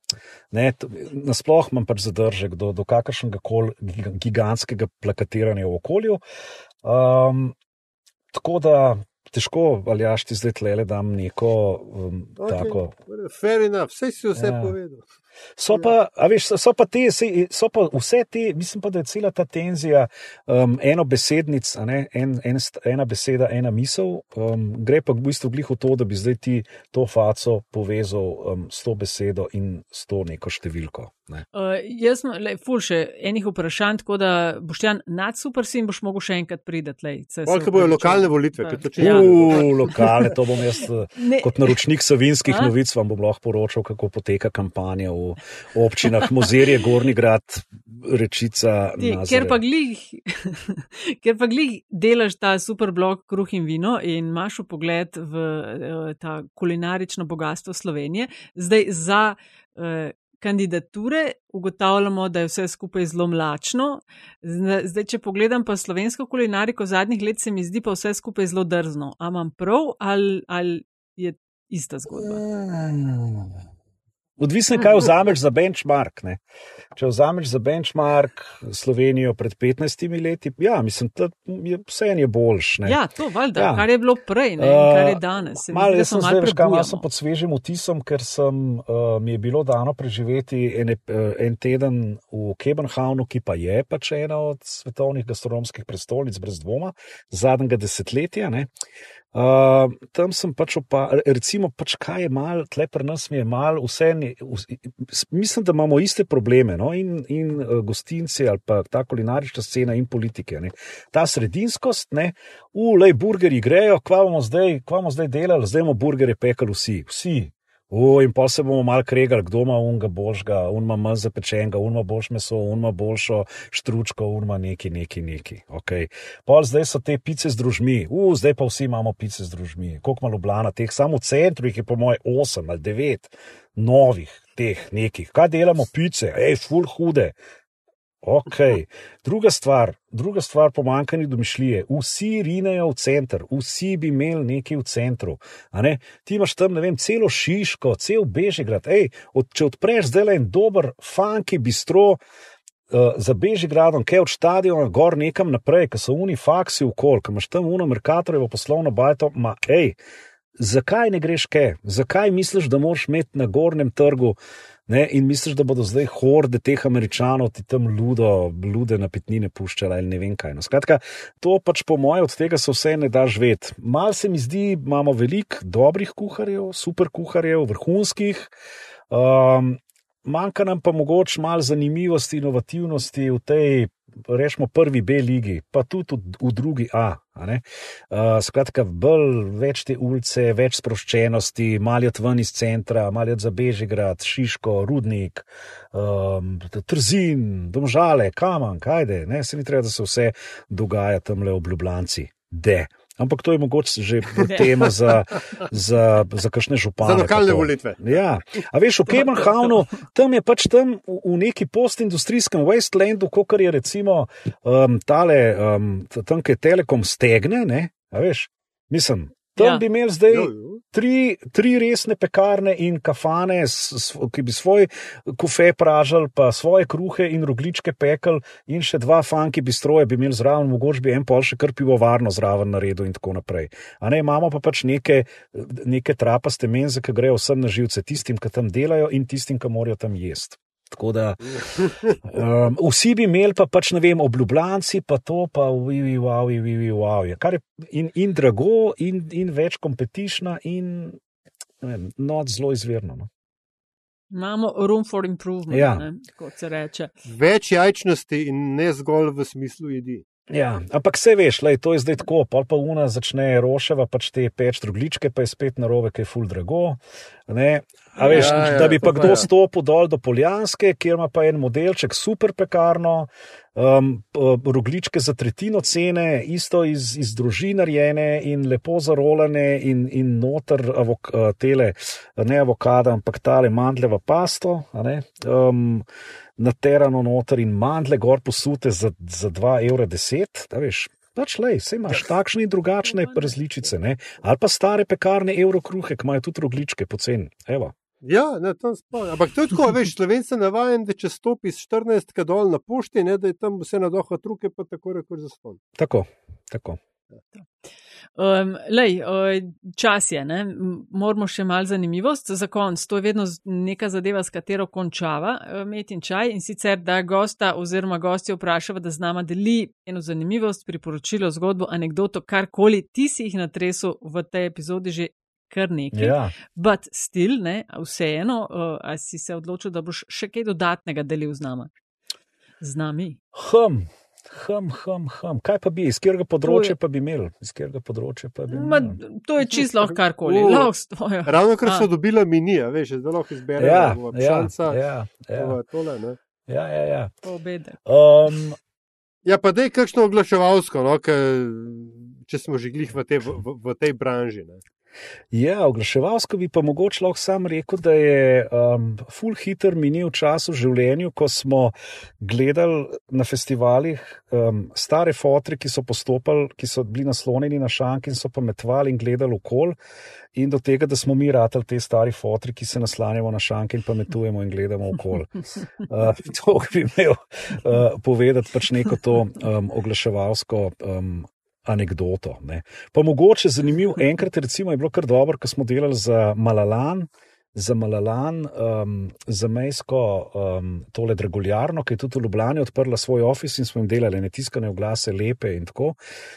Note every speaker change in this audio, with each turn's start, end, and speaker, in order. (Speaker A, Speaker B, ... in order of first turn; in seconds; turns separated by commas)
Speaker A: 0.5-6.2, Speaker A: 6.8-7.5, Speaker A: 8.3-12.9, Speaker B: 12.4-15.0, Speaker A: 14.3-14.7, Speaker A: 15.6-31.4, Speaker C: 31.5-40.1, Speaker B: 37.5-40.0, Speaker A: 39.0-49.6, Speaker C: 41.2-41.8, Speaker C: 42.5-42.7, Speaker C: 49.0-72.4, Speaker A: 72.1-73.5, Speaker A: 74.4-76.4, Speaker A: 76.9-83.0, Speaker C: 82.8-87.0, Speaker A: 83.5-83.9, Speaker A: 84.6-98.7, Speaker A: 99.3-137.3, Speaker A: 138.2-152.2, Speaker A: 152.9-159.9, Speaker A: 160.6-178.5, Speaker A: 179.1-251.2, Speaker B: 207.0-208.2, Speaker C: 219.6-219.8, Speaker B: 220.3-220.8, Speaker B: 241.8-242.1, Speaker A: 251.8-253.3, Speaker C: 254.3-257.1, Speaker A: 255.7-256.1, Speaker B: 257.2-260.2, Speaker A: 260.5-286.1, Speaker C: 268.2-268.9, Speaker B: 268.2-269.5, Speaker A: 286.6-297.9, Speaker B: 298.2-305.8, Speaker A: 305.9-307.0, Speaker C: 308.4-331.9, Speaker A: 326.1-326.5, Speaker C: 332.8-333.4, Speaker A: 333.5-339.2, Speaker C: 336.6-336.9, Speaker C: 338.7-342.1, Speaker B: 339.7-340.9, Speaker B: 341.4-345.0, Speaker A: 343.8-345.8, Speaker B: 345.5-346.4, Speaker A: 346.7-347.3, Speaker C: 347.4-348.0, Speaker A: 348.1-348.8, Speaker B: 349.4-354.8, Speaker A: 355.5-369.9, Speaker A: 370.5-396.1